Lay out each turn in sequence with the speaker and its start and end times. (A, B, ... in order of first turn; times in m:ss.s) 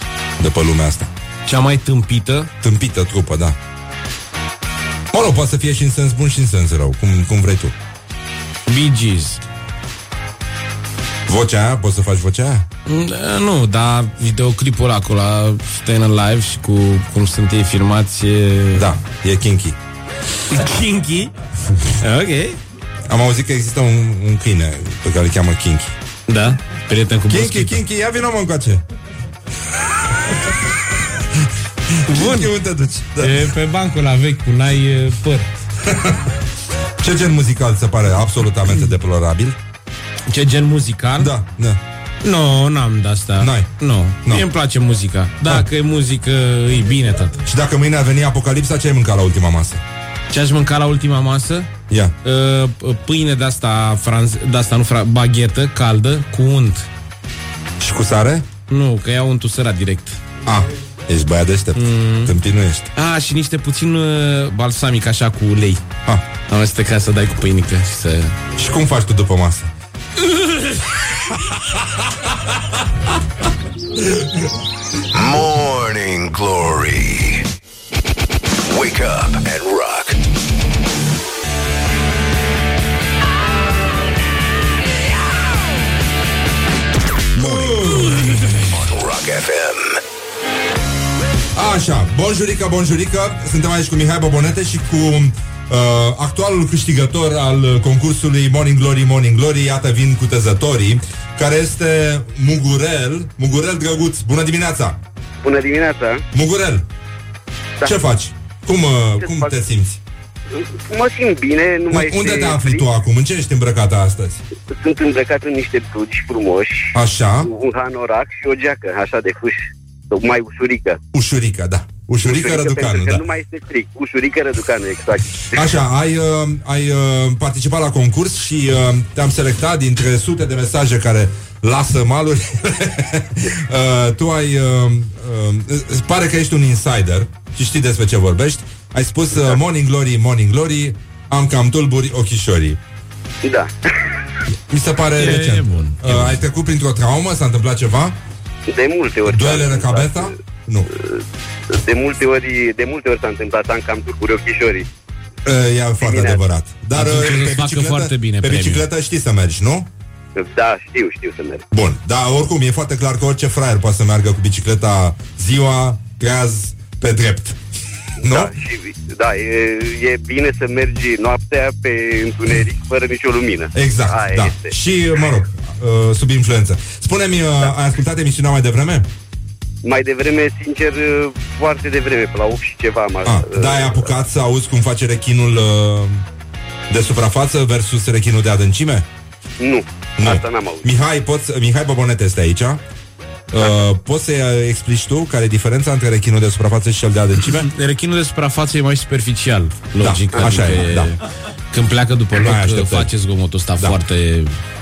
0:00.4-0:01.1 A
0:01.5-0:02.5 B
0:02.6-0:03.6 A
0:05.1-0:07.8 A
0:08.7-0:09.4 B
0:11.3-0:12.7 A
0:12.9-0:18.9 B
0:18.8-0:19.8 A
0:20.5-0:22.6 B
0:23.1-0:26.0 A
0:26.3-0:27.8 B
0:27.3-0:28.8 A
0:31.1-0:33.5 A
0:32.1-0:32.5 B
0:33.2-0:35.5 B
0:35.8-0:36.4 A
0:37.0-0:39.6 A
0:40.3-0:41.3 B
0:41.2-0:41.8 A
0:42.2-0:47.4 B
0:43.4-0:43.7 A
0:47.4-0:49.8 A
0:50.3-0:51.7 B
0:51.9-0:52.2 A
0:52.2-0:56.9 B
0:57.8-0:58.5 A
0:58.7-1:00.2 B
1:00.4-1:02.9 A
1:01.8-1:02.4 B
1:03.0-1:05.8 B
1:06.5-1:08.4 B
1:08.6-1:09.7 A
1:10.3-1:10.7 B
1:15.1-1:17.5 C
1:18.6-1:20.2 C
1:27.4-1:30.0 C
1:27.4-1:28.7 A
1:31.5-1:45.0 A
1:45.4-1:46.2 D
1:46.3-1:46.9 A
1:47.8-1:50.0 A
1:50.5-1:52.8 D
1:51.9-1:54.4 A
1:54.8-2:01.0 D
1:56.9-1:57.5 A
2:01.1-2:03.2 A
2:02.2-2:05.7 D
2:05.5-2:22.8 A
2:23.4-2:23.7 D
2:24.5-2:28.2 A
2:25.2-2:26.4 B
2:28.7-2:30.3 D
2:29.3-2:30.9 A
2:31.0-2:34.9 D
2:35.4-2:39.9 A
2:36.0-2:36.4 D
2:37.0-2:38.9 B
2:40.4-2:41.7 D
2:41.7-2:47.6 A
2:48.2-2:48.5 A
2:48.2-2:54.7 D
2:53.8-2:59.1 A
2:59.8-3:04.0 D
3:03.2-3:06.2 A
3:06.9-3:09.1 A
3:09.6-3:10.9 D
3:10.2-3:12.8 A
3:13.5-3:17.7 A
3:17.4-3:24.6 B
3:20.0-3:21.1 A
3:22.3-3:23.1 A